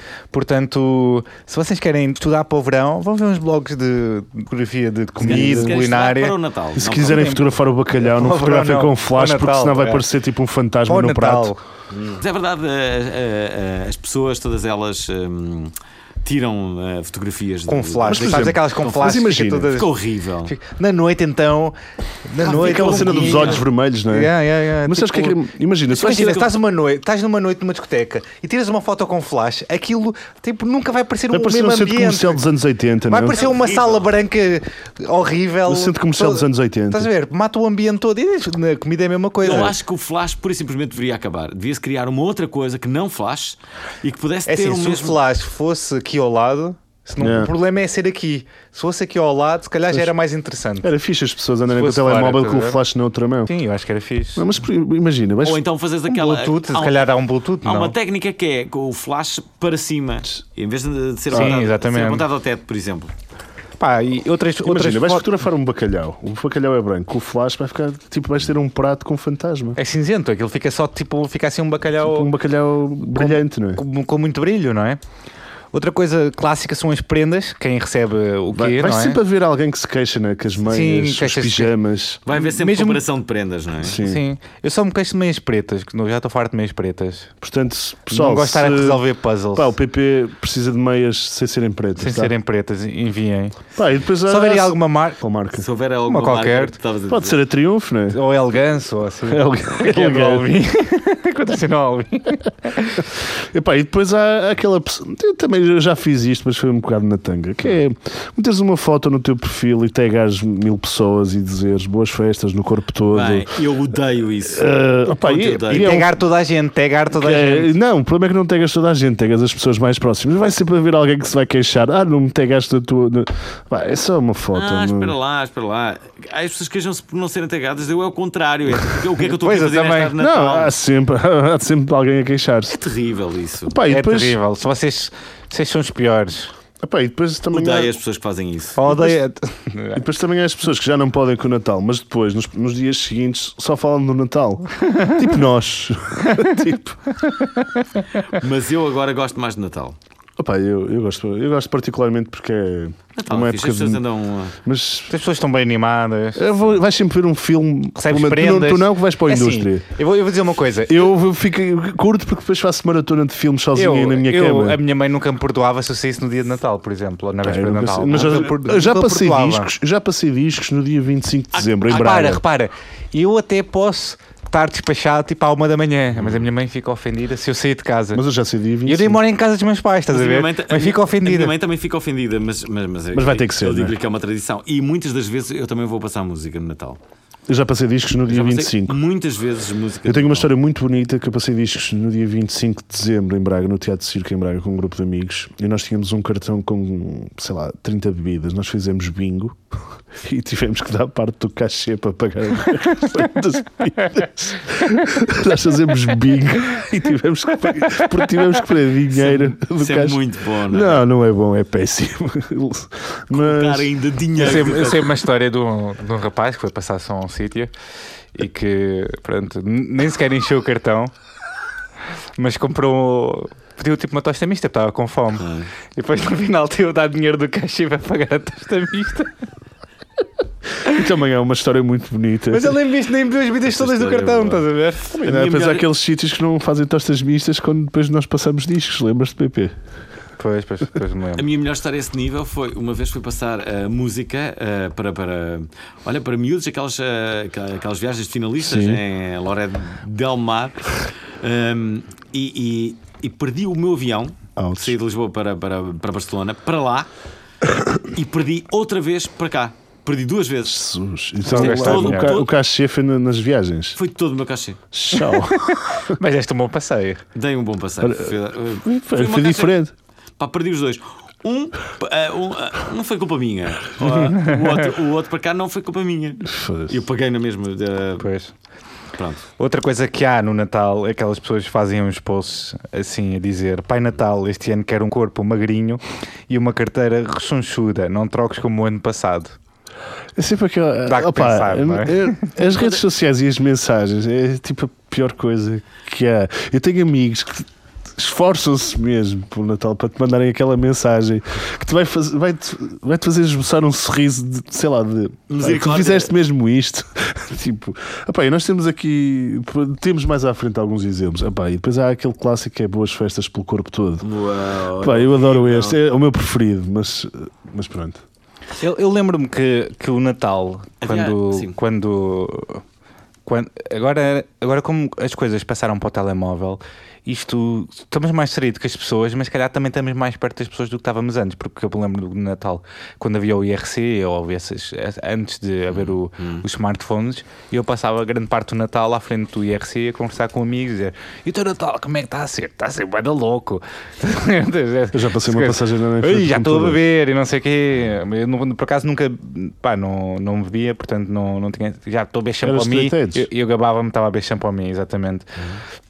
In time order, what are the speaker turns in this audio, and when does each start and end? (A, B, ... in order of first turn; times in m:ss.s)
0:00.3-0:07.4 A
0:05.2-0:05.8 B
0:05.2-0:07.4 C
0:06.8-0:11.5 B
0:08.0-0:10.0 A
0:10.9-0:11.6 A
0:11.9-0:19.1 C
0:17.7-0:19.9 A
0:18.1-0:19.8 B
0:19.7-0:20.5 C
0:20.5-0:32.4 A
0:22.4-0:23.6 C
0:22.5-0:26.5 B
0:31.3-0:33.4 B
0:33.1-0:39.7 A
0:33.4-0:34.0 C
0:35.6-0:37.1 B
0:39.4-0:45.2 C
0:44.5-0:50.9 A
0:47.2-0:47.5 B
0:50.8-0:53.5 B
0:51.7-0:52.8 A
0:53.5-0:54.5 A
0:54.4-0:55.6 B
0:55.4-0:57.0 C
0:56.1-0:58.0 A
0:57.6-1:03.1 C
1:01.3-1:02.2 A
1:03.8-1:05.3 A
1:04.6-1:09.8 B
1:09.8-1:12.3 A
1:12.0-1:13.8 B
1:13.1-1:15.0 A
1:15.7-1:19.2 A
1:18.5-1:22.2 B
1:20.6-1:21.7 A
1:22.2-1:24.0 C
1:22.3-1:23.0 A
1:23.8-1:24.2 B
1:23.9-1:27.3 A
1:27.4-1:29.0 B
1:28.1-1:29.8 A
1:29.5-1:32.3 B
1:32.0-1:33.7 A
1:33.8-1:35.6 B
1:34.2-1:35.2 A
1:35.6-1:37.4 C
1:36.1-1:36.8 A
1:37.1-1:38.2 B
1:38.1-1:43.1 A
1:39.3-1:40.5 B
1:43.3-1:53.6 B
1:53.1-1:56.0 C
1:54.4-1:56.1 B
1:55.7-1:57.7 A
1:57.1-2:05.2 B
2:04.5-2:10.7 C
2:09.3-2:10.1 A
2:10.2-2:12.8 B
2:12.7-2:13.8 C
2:13.7-2:14.4 B
2:13.9-2:16.5 A
2:16.8-2:17.9 B
2:17.5-2:18.8 C
2:18.8-2:20.0 A
2:18.9-2:19.2 B
2:20.0-2:27.0 B
2:24.8-2:25.2 A
2:26.3-2:26.6 A
2:27.2-2:27.8 A
2:28.2-2:30.0 C
2:30.4-2:34.0 B
2:33.2-2:34.6 C
2:34.6-2:35.1 B
2:35.1-2:36.6 A
2:36.4-2:39.9 B
2:38.0-2:41.1 A
2:40.9-2:44.8 B
2:43.7-2:49.7 A
2:47.4-2:52.4 B
2:51.8-2:58.2 A
2:56.2-2:56.4 C
2:58.1-2:59.2 B
2:58.8-3:01.5 A
3:00.1-3:07.0 C
3:03.1-3:04.0 B
3:07.5-3:09.0 B
3:08.3-3:10.5 C
3:10.1-3:33.9 B
3:27.8-3:28.2 A
3:29.1-3:31.0 C
3:33.3-3:35.1 C
3:34.4-3:37.7 A
3:38.3-3:41.1 A
3:42.4-3:49.3 A
3:45.4-3:45.7 C
3:50.8-3:52.8 B
3:52.5-3:55.1 A
3:53.7-3:54.6 C
3:55.1-3:59.7 B
3:55.2-3:55.9 C
4:00.4-4:01.5 A
4:01.4-4:17.1 C
4:08.6-4:09.0 B
4:14.6-4:14.9 B
4:18.0-4:20.8 C
4:20.6-4:24.0 B
4:21.5-4:22.5 C
4:21.5-4:22.4 A
4:24.0-4:24.8 C
4:24.9-4:26.2 B
4:25.2-4:27.2 A
4:27.4-4:29.8 C
4:28.0-4:29.9 B
4:30.4-4:38.3 C
4:34.2-4:34.7 A
4:36.4-4:37.0 B
4:38.2-4:38.5 A
4:39.2-4:39.5 C
4:39.6-4:49.6 A
4:50.4-5:14.2 B
4:51.1-4:52.5 A
5:05.5-5:06.3 C
5:14.2-5:16.0 C
5:15.0-5:18.2 B
5:18.8-5:22.8 A
5:21.0-5:21.8 C
5:23.5-5:55.6 A
5:35.9-5:36.6 C
5:45.1-5:47.0 B
5:52.6-5:53.5 B